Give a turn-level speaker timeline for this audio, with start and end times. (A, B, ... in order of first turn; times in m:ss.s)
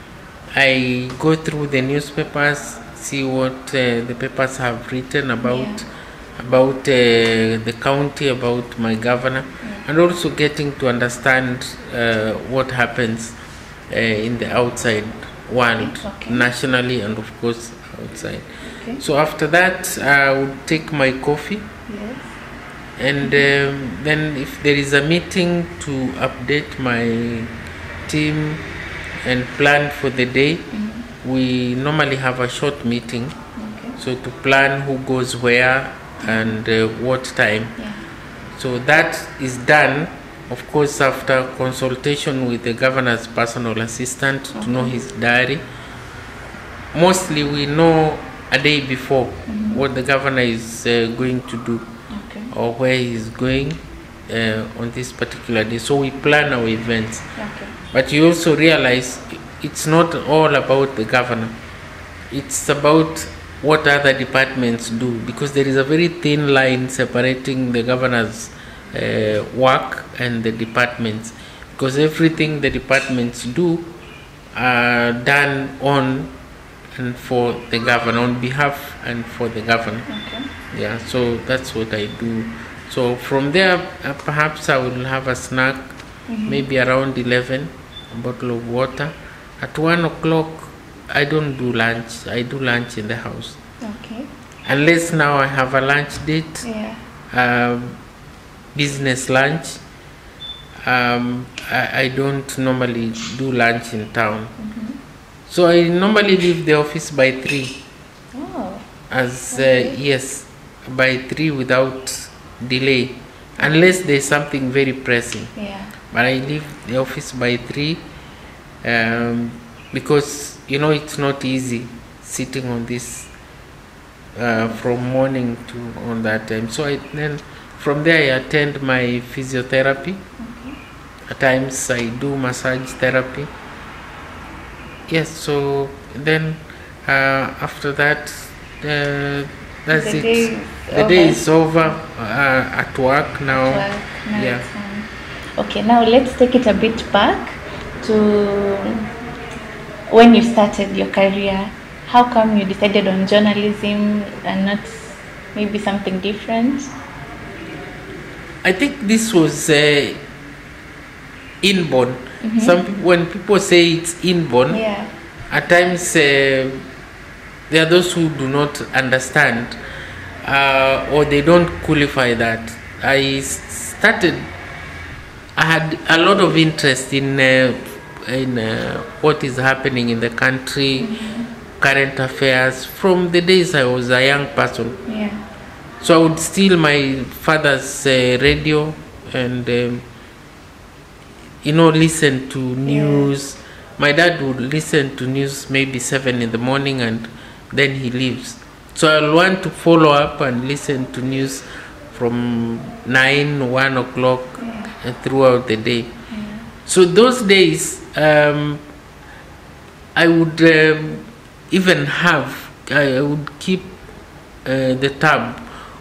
0:00.5-0:13.3 A
0:05.4-0:05.8 B
0:13.9-0:18.5 A
0:15.8-0:16.5 B
0:19.0-0:21.7 A
0:21.9-0:22.3 B
0:23.0-0:27.5 A
0:28.0-0:28.6 A
0:29.2-0:30.7 A
0:30.7-0:31.1 B
0:31.2-0:33.3 A
0:33.6-0:34.0 B
0:34.0-0:37.7 A
0:36.2-0:36.5 B
0:38.6-0:45.6 A
0:44.5-0:44.9 B
0:46.9-0:51.9 A
0:49.4-0:49.8 B
0:52.1-0:52.5 B
0:52.5-0:57.3 A
0:57.4-0:57.7 B
0:57.9-1:01.5 A
1:02.3-1:13.9 A
1:14.5-1:16.3 A
1:17.0-1:20.1 A
1:20.1-1:20.5 B
1:20.7-1:25.9 A
1:26.3-1:26.6 B
1:26.5-1:33.6 A
1:33.8-1:34.3 B
1:34.6-1:36.6 A
1:36.6-1:37.0 B
1:37.3-1:38.0 A
1:38.7-1:39.8 A
1:40.8-1:44.5 A
1:44.6-1:45.0 B
1:45.5-1:47.8 A
1:48.3-1:48.8 B
1:49.1-1:55.5 A
1:49.5-1:50.0 B
1:55.6-1:55.9 B
1:56.1-1:58.0 A
1:58.8-2:03.3 A
2:04.4-2:10.2 A
2:10.4-2:10.8 B
2:11.3-2:13.5 A
2:15.1-2:24.6 A
2:19.9-2:21.4 B
2:23.5-2:29.1 B
2:30.1-2:36.9 B
2:38.6-2:40.2 A
2:41.6-2:44.8 A
2:42.4-2:42.8 B
2:44.7-2:45.1 B
2:45.5-2:46.8 A
2:47.7-2:49.8 A
2:50.4-2:54.5 A
2:55.6-3:01.1 A
3:01.0-3:01.5 B
3:01.8-3:05.0 A
3:05.0-3:05.4 B
3:06.0-3:10.0 A
3:11.6-3:26.1 A
3:12.8-3:13.3 B
3:24.6-3:24.9 B
3:26.3-3:26.7 B
3:26.8-3:28.8 A
3:30.1-3:33.9 A
3:34.6-3:35.6 A